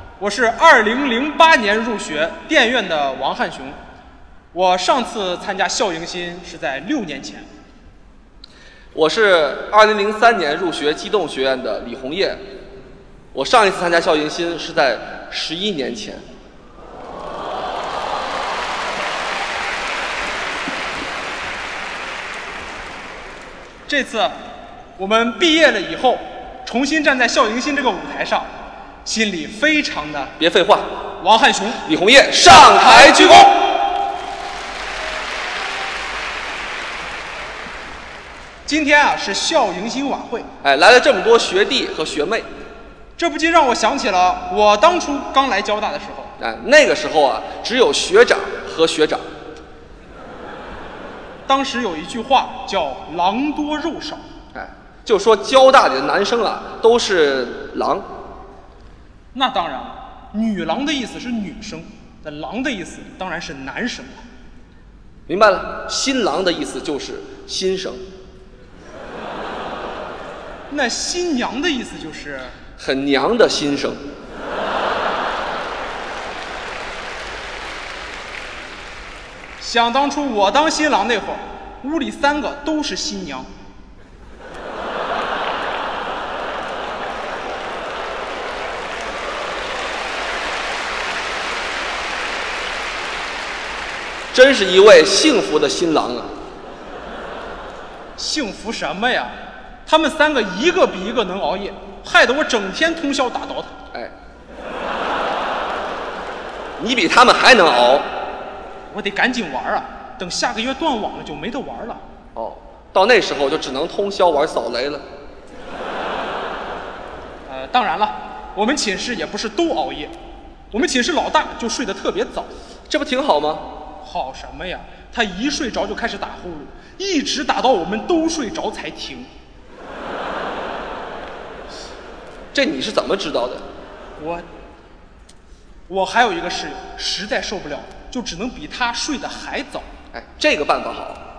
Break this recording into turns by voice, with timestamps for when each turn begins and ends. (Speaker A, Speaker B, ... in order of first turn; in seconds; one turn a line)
Speaker A: 0.2-3.8
Speaker A: 4.5-7.5
Speaker B: 8.9-12.4
Speaker B: 13.3-16.2
Speaker A: 23.9-24.4
Speaker A: 25.0-28.5
Speaker A: 29.1-30.4
Speaker B: 30.4-31.0
Speaker A: 31.2-31.9
Speaker B: 31.9-33.6
Speaker A: 32.5-33.7
Speaker A: 38.7-40.5
Speaker B: 40.6-42.5
Speaker A: 43.2-46.3
Speaker B: 46.4-49.2
Speaker A: 51.5-54.2
Speaker B: 54.5-58.1
Speaker A: 59.3-64.2
Speaker B: 65.3-68.0
Speaker A: 70.7-72.6
Speaker B: 72.8-74.0
Speaker A: 79.6-83.5
Speaker B: 94.3-96.3
Speaker A: 98.2-99.3
Speaker A: 99.9-103.8
Speaker B: 106.8-108.1
Speaker A: 108.9-112.0
Speaker B: 112.3-115.0
Speaker A: 117.5-120.1
Speaker A: 120.7-122.5
Speaker B: 122.9-123.7
Speaker A: 124.0-129.3
Speaker B: 132.5-133.6
Speaker A: 134.2-134.5
Speaker A: 135.9-139.9
Speaker B: 140.1-141.2